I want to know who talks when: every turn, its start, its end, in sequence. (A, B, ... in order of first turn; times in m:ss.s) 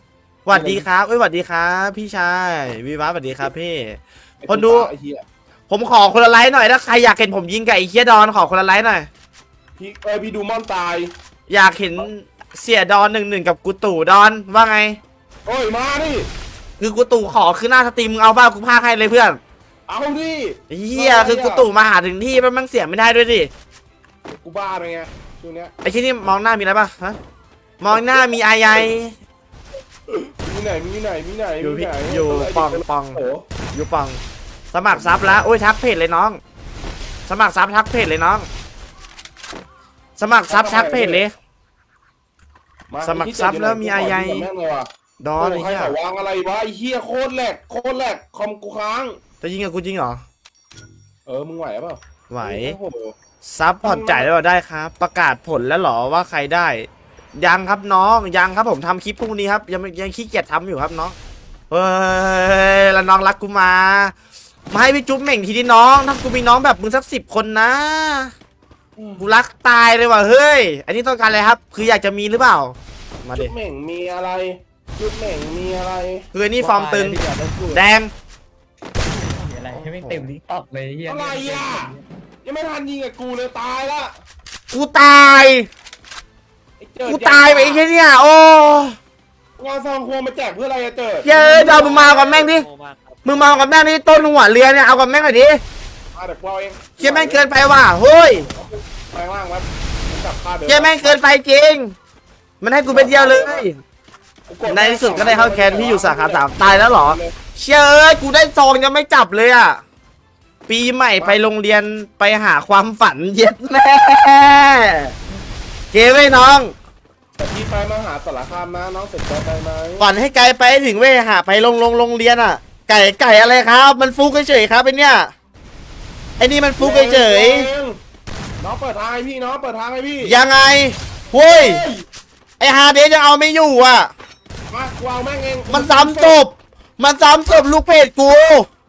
0:00.4-0:04.9 A
0:00.5-0:00.9 B
0:04.4-0:05.2 B
0:05.7-0:09.1 A
0:09.8-0:11.1 B
0:11.5-0:15.0 A
0:15.4-0:16.3 B
0:16.8-0:19.4 A
0:19.9-0:21.7 B
0:20.7-0:23.5 A
0:24.3-0:25.7 B
0:25.8-0:27.2 A
0:27.8-0:29.1 A
0:27.9-0:28.3 B
0:30.1-0:33.4 B
0:31.6-0:33.2 A
0:33.7-0:34.2 A
0:34.7-0:36.4 A
0:34.8-0:35.5 B
0:37.3-0:38.5 A
0:40.2-0:41.4 A
0:40.5-0:41.2 B
0:42.9-0:49.2 B
0:43.0-0:44.5 A
0:45.2-0:46.0 A
0:49.4-0:50.2 A
0:51.2-0:53.2 B
0:52.3-0:52.8 A
0:53.4-1:01.1 A
0:53.8-0:54.3 B
1:01.7-1:04.1 A
1:04.7-1:08.3 A
1:09.0-1:09.3 B
1:09.2-1:13.5 A
1:13.3-1:16.3 B
1:16.3-1:17.2 A
1:16.6-1:17.8 C
1:17.7-1:18.1 A
1:19.1-1:22.0 C
1:19.7-1:20.3 A
1:21.0-1:21.9 B
1:22.4-1:24.1 B
1:24.7-1:25.7 A
1:26.8-1:27.8 B
1:27.0-1:29.0 A
1:29.6-1:32.4 B
1:31.2-1:32.6 A
1:31.6-1:33.5 C
1:33.2-1:35.6 A
1:36.1-1:37.5 B
1:37.0-1:38.5 A
1:38.4-1:41.2 B
1:40.6-1:41.9 A
1:42.6-1:43.8 A
1:42.9-1:43.7 B
1:44.5-1:47.3 B
1:44.6-1:49.8 A
1:50.7-1:55.1 A
1:55.9-1:56.7 A
1:57.4-2:00.1 B
2:00.0-2:05.3 A
2:06.4-2:07.7 A
2:06.8-2:08.0 B
2:08.6-2:10.4 B
2:10.2-2:11.8 A
2:11.4-2:12.0 B
2:12.6-2:14.1 A
2:14.7-2:16.4 B
2:15.7-2:18.7 A